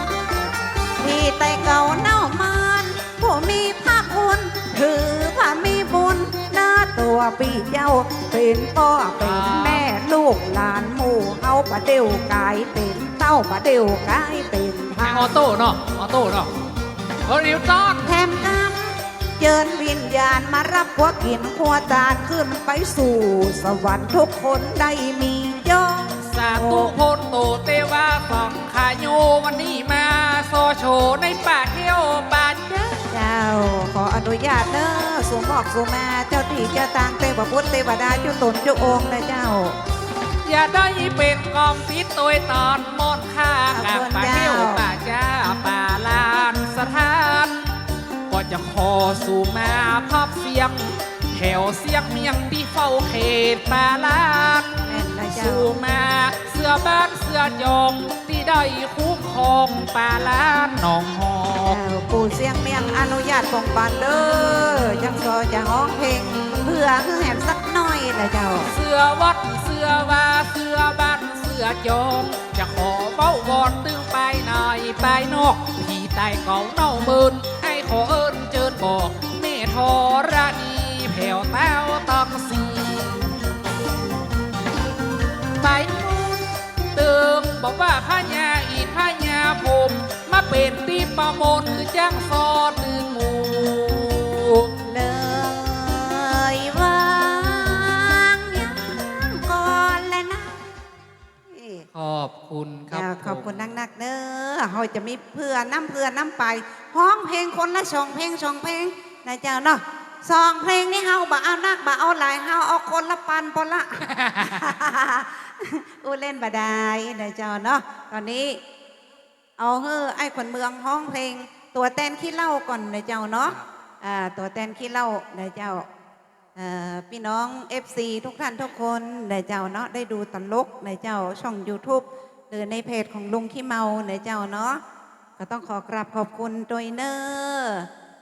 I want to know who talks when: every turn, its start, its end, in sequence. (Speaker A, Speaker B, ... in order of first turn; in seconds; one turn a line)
Speaker A: 1.0-15.3
Speaker B: 9.2-9.9
Speaker B: 15.0-16.5
Speaker B: 17.3-18.6
Speaker A: 18.1-26.9
Speaker B: 26.2-33.1
Speaker A: 33.1-39.8
Speaker B: 40.5-47.7
Speaker A: 43.7-44.8
Speaker B: 48.3-54.8
Speaker A: 54.9-55.7
Speaker B: 55.3-61.8
Speaker A: 61.6-68.7
Speaker B: 68.7-83.3
Speaker B: 85.6-94.7
Speaker A: 94.8-100.6
Speaker A: 101.5-101.9
Speaker B: 101.9-103.7
Speaker A: 102.9-118.6
Speaker B: 114.2-114.6
Speaker A: 119.6-125.9
Speaker A: 126.6-134.8
Speaker A: 135.4-137.9